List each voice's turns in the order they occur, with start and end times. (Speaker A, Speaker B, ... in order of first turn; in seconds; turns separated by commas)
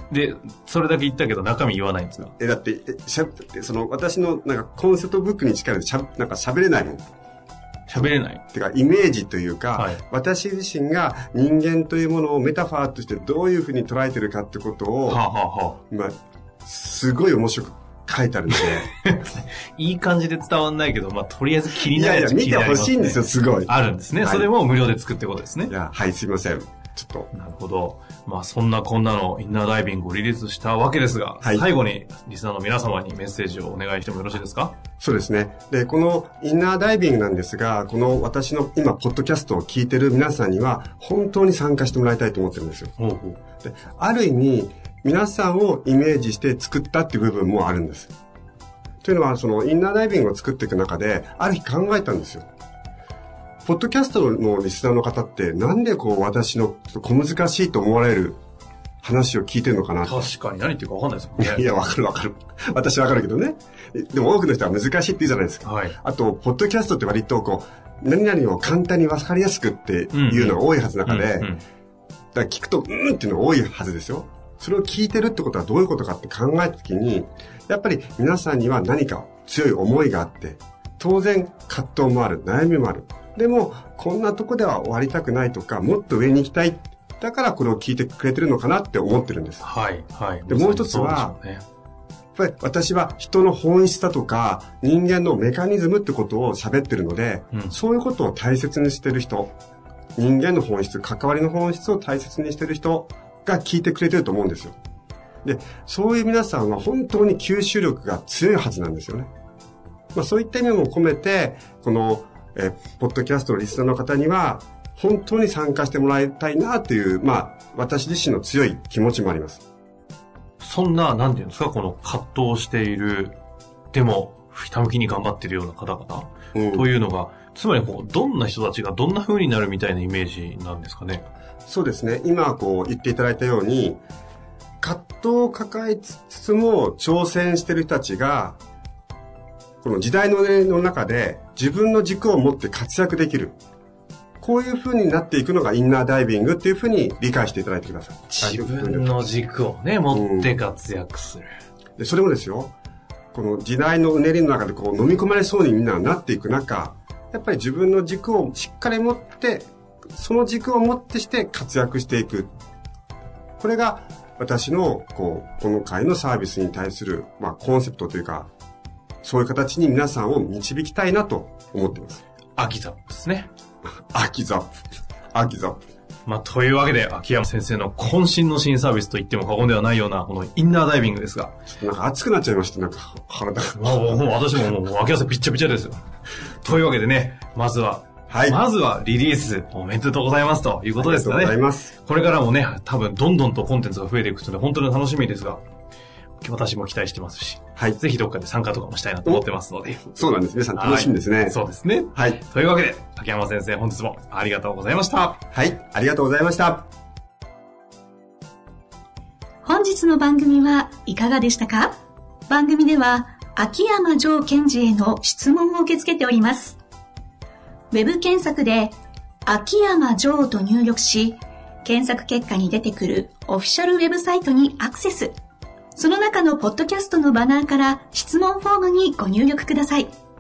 Speaker A: 0.1-2.3, Speaker B: 2.4-7.1, Speaker A: 7.9-8.4, Speaker B: 8.0-15.2, Speaker A: 15.1-15.8, Speaker B: 15.9-18.9, Speaker A: 19.0-25.7, Speaker B: 21.9-24.5, Speaker B: 25.7-27.3, Speaker A: 27.3-34.8, Speaker B: 35.0-42.9, Speaker A: 43.0-43.4, Speaker B: 43.6-48.1, Speaker B: 49.0-52.5, Speaker B: 53.6-58.4, Speaker B: 59.0-60.3, Speaker A: 60.0-61.6, Speaker B: 61.4-71.5, Speaker A: 65.7-66.0, Speaker A: 70.1-71.6, Speaker B: 72.3-89.7, Speaker A: 89.6-91.6, Speaker B: 90.5-91.3, Speaker B: 92.4-99.5, Speaker B: 100.2-104.8, Speaker B: 105.4-109.3, Speaker B: 110.1-119.6, Speaker A: 120.6-123.4, Speaker A: 123.9-131.3, Speaker B: 126.5-126.9, Speaker B: 131.7-134.0, Speaker B: 134.8-138.6, Speaker B: 139.8-143.6, Speaker B: 144.4-149.2, Speaker A: 148.3-151.5, Speaker B: 150.1-150.5, Speaker B: 152.0-152.7, Speaker B: 153.3-162.5, Speaker B: 163.6-168.5, Speaker B: 169.2-172.2, Speaker A: 172.6-173.5, Speaker B: 174.1-174.7, Speaker B: 175.3-175.8, Speaker A: 176.3-181.6, Speaker B: 181.7-184.2, Speaker A: 183.8-186.0, Speaker A: 186.6-195.6, Speaker B: 188.3-188.6, Speaker B: 191.0-191.9, Speaker A: 196.4-200.1, Speaker B: 200.1-201.6, Speaker A: 200.8-205.4, Speaker B: 202.2-202.4, Speaker B: 205.5-206.9, Speaker C: 209.6-216.8, Speaker C: 217.9-225.4, Speaker C: 225.9-230.2